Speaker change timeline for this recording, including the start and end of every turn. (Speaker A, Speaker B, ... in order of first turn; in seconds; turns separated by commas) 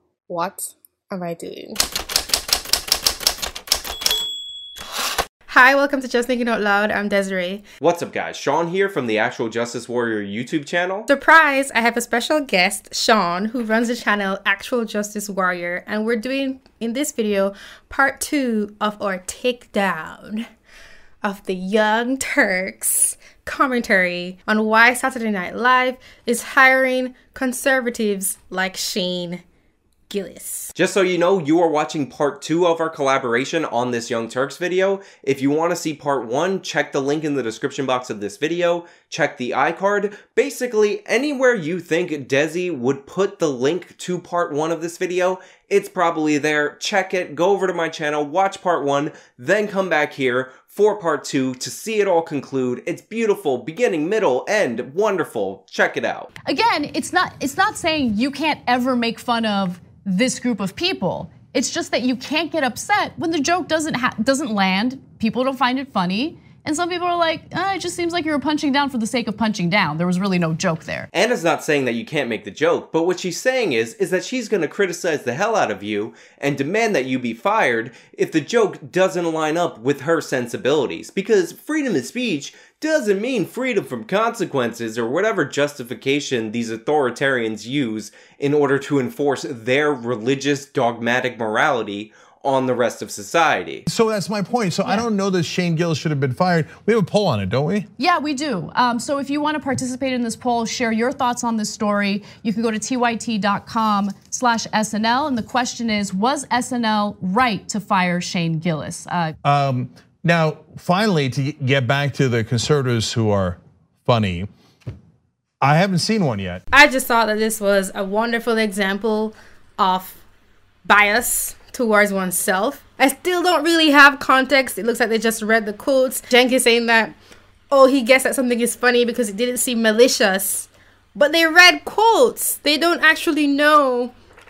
Speaker A: 0.3-1.8, Speaker A: 5.5-7.6, Speaker B: 7.8-11.1, Speaker A: 11.1-20.4, Speaker A: 21.2-29.4, Speaker A: 30.1-30.7, Speaker B: 30.8-56.3, Speaker C: 56.5-71.1, Speaker B: 71.1-93.8, Speaker D: 93.9-97.9, Speaker C: 98.0-109.3, Speaker D: 109.5-114.5, Speaker D: 115.6-116.6, Speaker A: 116.7-120.2, Speaker A: 120.9-127.2, Speaker A: 127.7-134.1